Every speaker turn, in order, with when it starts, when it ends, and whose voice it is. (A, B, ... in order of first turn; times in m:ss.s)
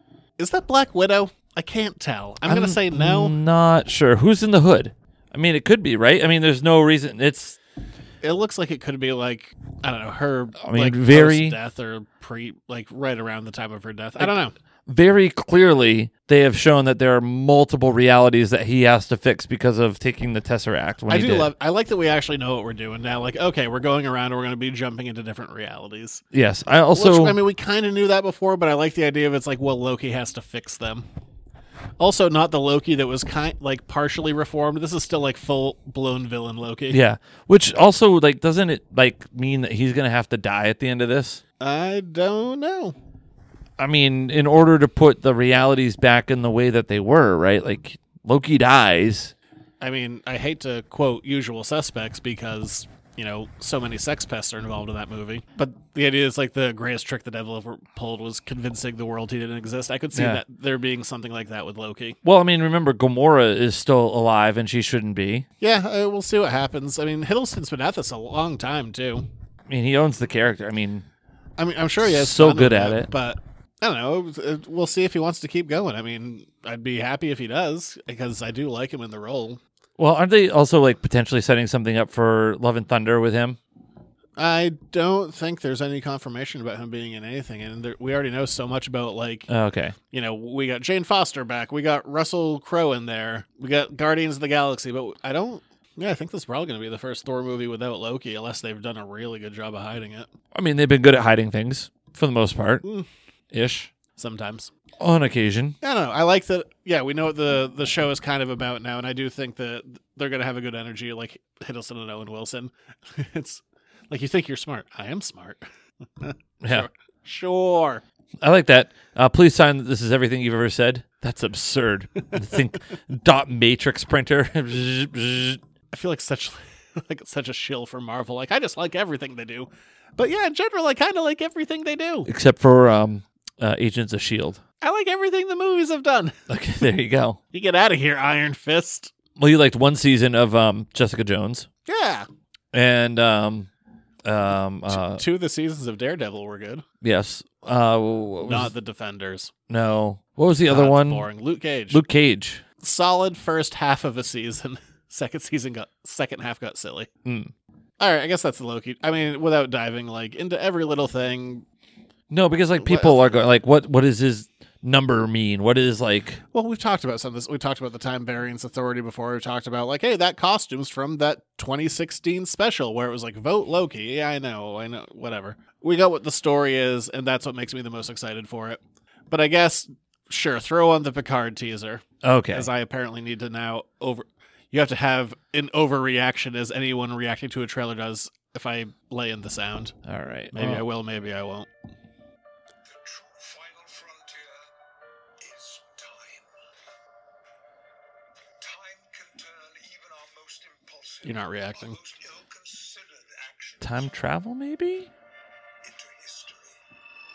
0:00.4-0:03.3 A
0:02.4-0:07.6 B
0:08.2-0:14.6 A
0:10.6-0:11.6 B
0:14.9-0:21.5 B
0:21.1-0:26.2 A
0:26.3-0:27.4 B
0:26.9-0:31.1 A
0:32.0-0:37.0 A
0:36.9-0:41.4 B
0:41.6-0:43.0 A
0:43.8-0:49.3 B
0:49.8-1:02.2 A
1:00.1-1:00.4 B
1:02.2-1:05.4 B
1:05.6-1:09.2 A
1:09.7-1:11.1 B
1:11.6-1:19.6 A
1:12.0-1:13.1 B
1:20.0-1:23.6 B
1:24.4-1:29.5 A
1:29.5-1:30.0 B
1:30.1-1:40.3 A
1:40.5-1:42.8 B
1:43.5-1:43.9 B
1:44.2-1:44.7 A
1:45.0-1:45.8 B
1:45.8-1:55.7 A
1:56.2-1:58.0 A
1:56.6-1:56.9 B
1:58.4-2:05.6 B
2:05.9-2:12.3 A
2:12.2-2:14.6 B
2:14.8-2:16.3 A
2:16.5-2:17.4 B
2:17.5-2:19.1 A
2:19.4-2:21.7 B
2:21.9-2:22.3 A
2:22.7-2:23.7 B
2:24.2-2:25.2 B
2:24.9-2:26.8 A
2:27.0-2:28.7 B
2:28.4-2:29.5 A
2:29.7-2:31.3 B
2:30.7-2:32.0 A
2:31.9-2:32.6 B
2:32.8-2:37.1 A
2:37.2-2:37.5 B
2:38.0-2:41.6 A
2:42.3-2:46.4 B
2:42.8-2:43.2 A
2:46.5-2:58.8 A
2:59.3-3:09.9 A
3:02.2-3:02.7 B
3:10.1-3:10.8 B
3:10.5-3:11.7 A
3:12.8-3:14.7 C
3:15.4-3:16.6 C
3:18.5-3:24.2 C
3:21.2-3:22.0 A
3:23.8-3:25.1 B
3:25.8-3:26.8 C